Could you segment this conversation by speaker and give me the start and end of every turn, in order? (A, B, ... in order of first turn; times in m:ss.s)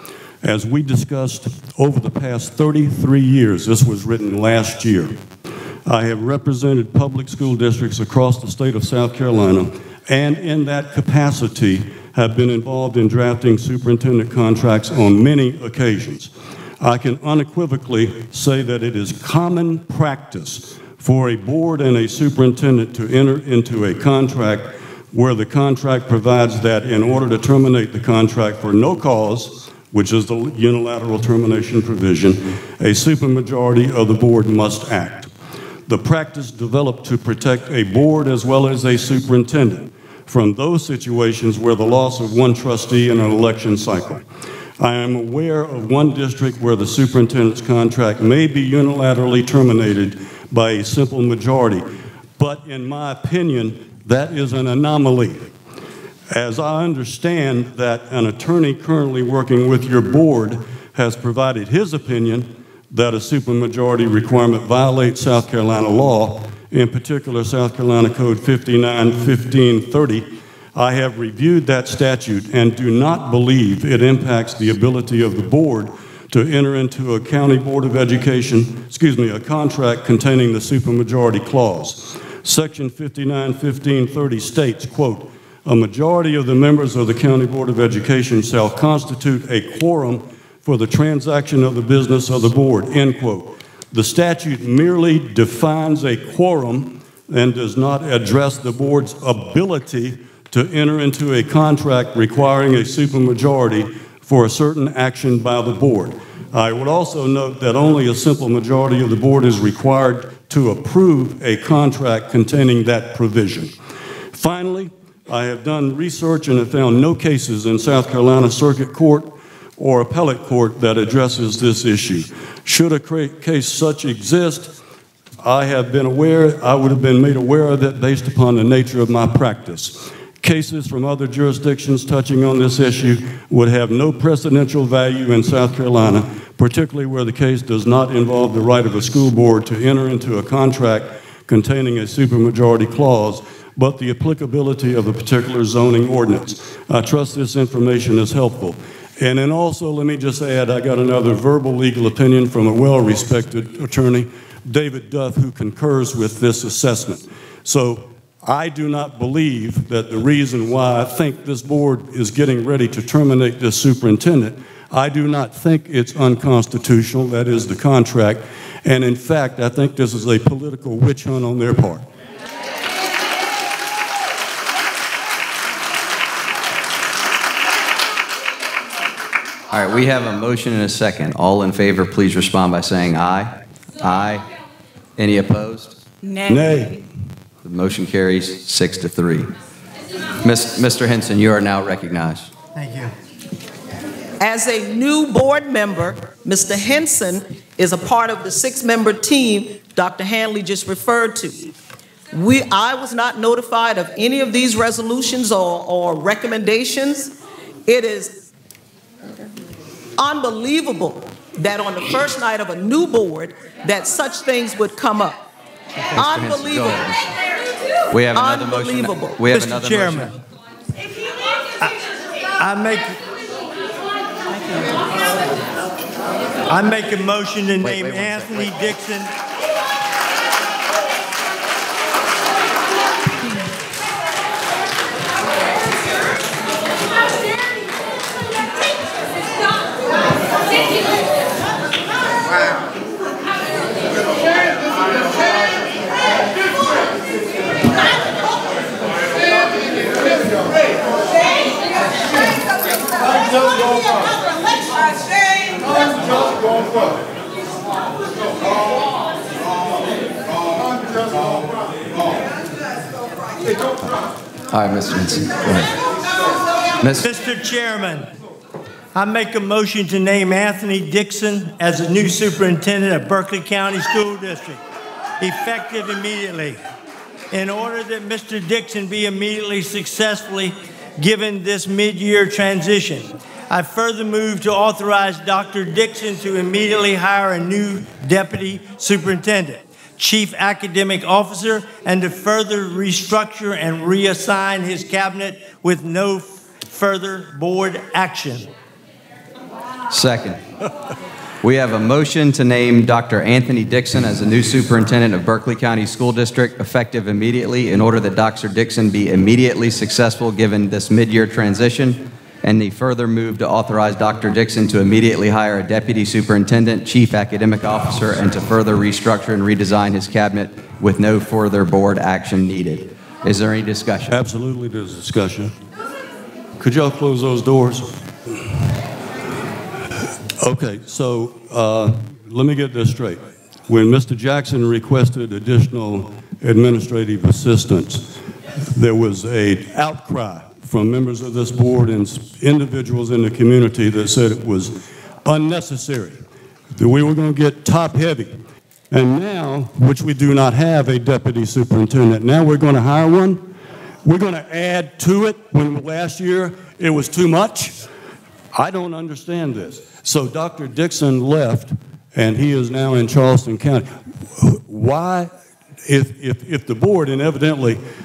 0:00.4-0:05.2 A
0:05.9-0:35.3 A
0:35.9-0:44.3 A
0:44.8-0:55.5 A
0:56.3-1:53.8 A
1:54.3-2:04.8 A
2:05.4-2:52.1 A
2:59.7-3:04.5 B
3:05.2-3:06.0 B
3:06.5-3:07.0 A
3:07.6-3:09.5 B
3:10.4-3:12.5 B
3:12.8-3:13.1 C
3:14.4-3:21.7 D
3:22.3-3:27.4 D
3:27.9-3:28.4 D
3:30.2-3:35.5 D
3:36.1-3:37.3 B
3:36.2-3:37.1 D
3:38.1-3:40.3 B
3:38.3-3:39.4 D
3:39.5-3:40.4 C
3:42.6-3:43.2 C
3:44.5-3:45.0 D
3:46.7-3:49.3 C
3:47.9-3:48.5 B
4:24.0-4:26.0 B
4:27.0-4:27.3 B
4:27.2-4:28.3 C
4:29.2-4:34.8 C
4:35.4-4:36.8 C
4:37.5-4:58.7 C
5:00.1-5:00.6 B
5:01.6-5:24.4 B
5:24.3-5:25.7 A
5:26.8-5:28.2 A
5:30.6-5:38.3 A
5:38.9-5:46.4 A
5:46.9-5:48.6 A
5:49.1-5:53.7 A
5:54.2-5:58.0 A
5:58.7-6:05.5 A
6:06.1-6:08.0 A